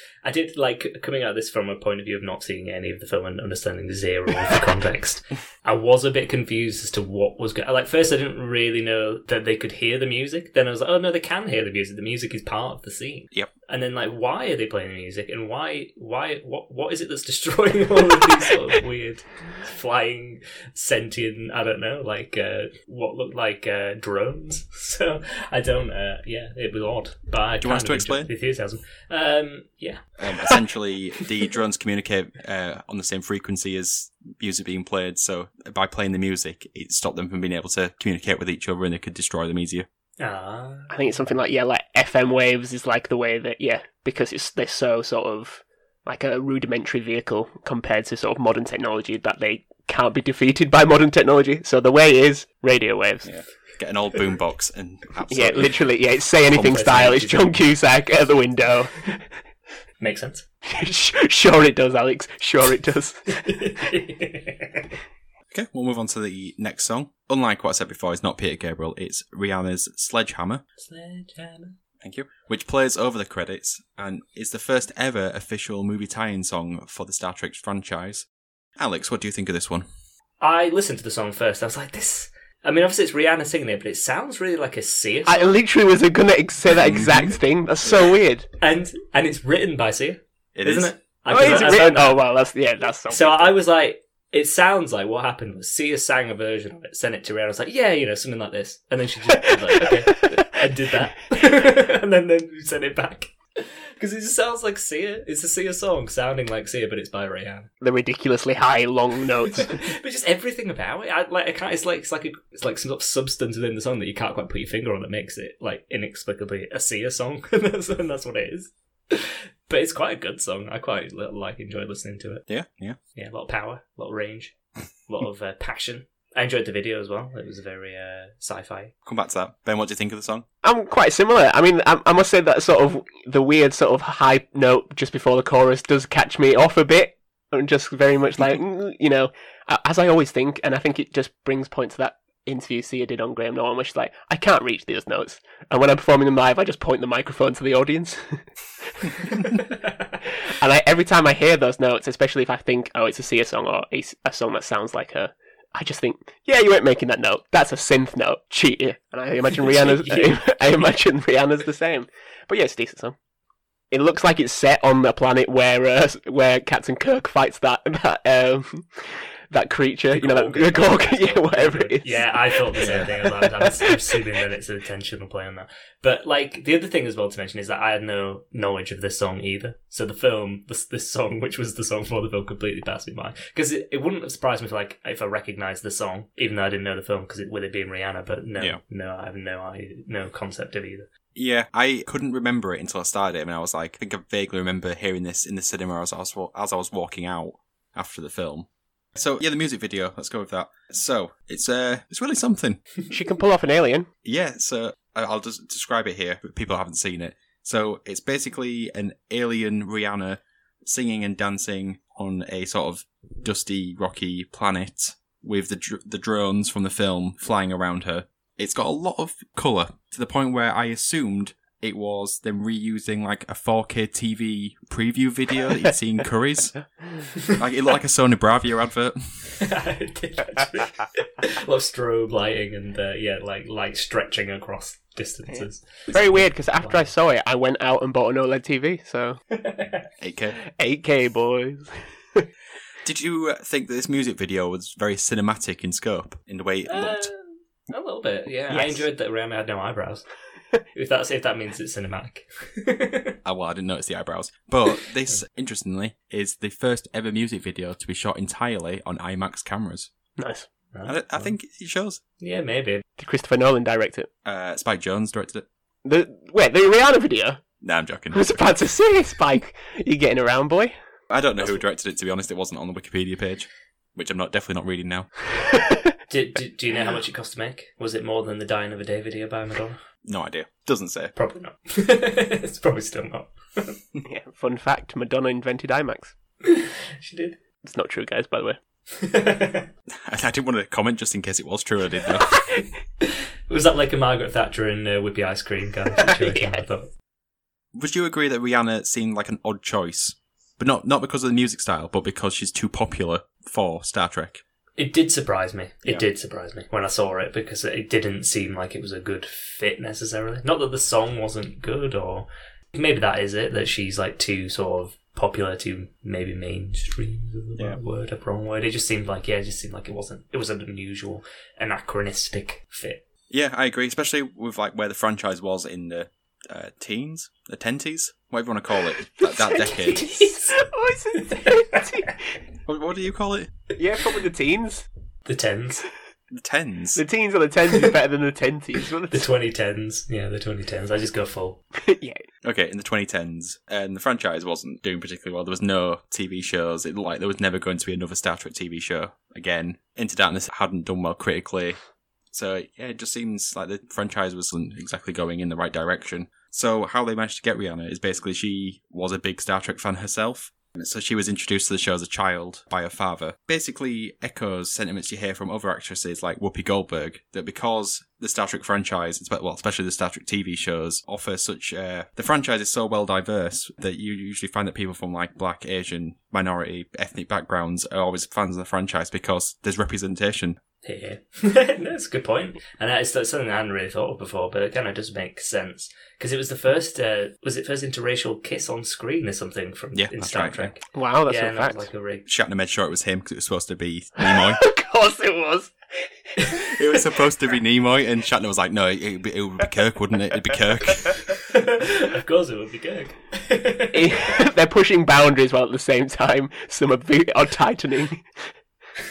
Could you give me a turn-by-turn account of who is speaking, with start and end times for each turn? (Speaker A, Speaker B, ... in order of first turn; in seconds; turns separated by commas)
Speaker A: 0.2-30.0, Speaker B: 27.6-28.3, Speaker B: 30.2-39.9, Speaker A: 40.2-40.9, Speaker C: 40.9-53.3, Speaker B: 53.2-55.8, Speaker C: 55.3-59.3, Speaker A: 56.5-57.6, Speaker A: 60.0-60.5, Speaker C: 60.6-63.4, Speaker A: 63.3-64.9, Speaker B: 65.5-70.6, Speaker A: 70.8-71.8, Speaker B: 72.0-79.8, Speaker A: 80.4-85.5, Speaker C: 85.3-88.5, Speaker B: 86.8-87.3, Speaker A: 88.6-92.2, Speaker B: 90.5-90.9, Speaker C: 91.3-93.5, Speaker A: 93.1-107.7, Speaker C: 99.8-100.3, Speaker C: 107.8-109.8, Speaker A: 109.6-122.4, Speaker B: 122.5-123.0, Speaker A: 123.2-124.5, Speaker A: 125.1-128.9, Speaker B: 129.0-130.4, Speaker C: 130.6-149.6, Speaker C: 150.4-163.2, Speaker A: 159.6-160.6, Speaker C: 163.9-173.9, Speaker A: 170.1-191.1, Speaker B: 172.8-173.1, Speaker B: 191.3-202.8, Speaker C: 203.1-204.1, Speaker B: 204.2-229.6, Speaker A: 229.6-237.1, Speaker C: 235.5-239.4, Speaker A: 239.5-240.1, Speaker B: 240.2-240.6, Speaker C: 240.6-242.5, Speaker B: 243.0-247.3, Speaker A: 246.9-253.3, Speaker C: 248.7-249.0, Speaker B: 253.4-260.1, Speaker C: 260.4-260.7, Speaker A: 260.9-261.5, Speaker B: 261.1-262.2, Speaker A: 262.4-263.0, Speaker C: 263.2-264.3, Speaker B: 264.4-265.6, Speaker C: 266.0-267.6, Speaker B: 267.8-268.7, Speaker C: 268.3-270.9, Speaker B: 271.3-275.3, Speaker C: 275.5-276.1, Speaker A: 276.3-280.0, Speaker B: 280.2-281.3, Speaker A: 281.3-284.0, Speaker C: 284.2-286.4, Speaker A: 286.6-287.6, Speaker C: 287.8-288.8, Speaker A: 289.1-289.9, Speaker B: 290.2-292.7, Speaker A: 293.2-297.1, Speaker C: 296.3-296.8, Speaker B: 297.9-304.6, Speaker A: 305.0-323.2, Speaker B: 323.5-330.3, Speaker C: 329.6-332.5, Speaker A: 329.8-330.8, Speaker A: 331.4-332.0, Speaker B: 332.9-333.7, Speaker C: 333.9-335.1, Speaker A: 335.4-336.1, Speaker B: 336.5-337.2, Speaker C: 337.1-339.5, Speaker A: 339.3-341.8, Speaker C: 342.0-342.4, Speaker B: 342.6-352.0, Speaker B: 352.5-380.8, Speaker A: 381.0-392.4, Speaker B: 390.1-390.9, Speaker C: 391.1-392.1, Speaker B: 392.4-394.8, Speaker C: 394.4-396.9, Speaker B: 396.9-401.5, Speaker A: 401.6-404.3, Speaker C: 404.1-408.4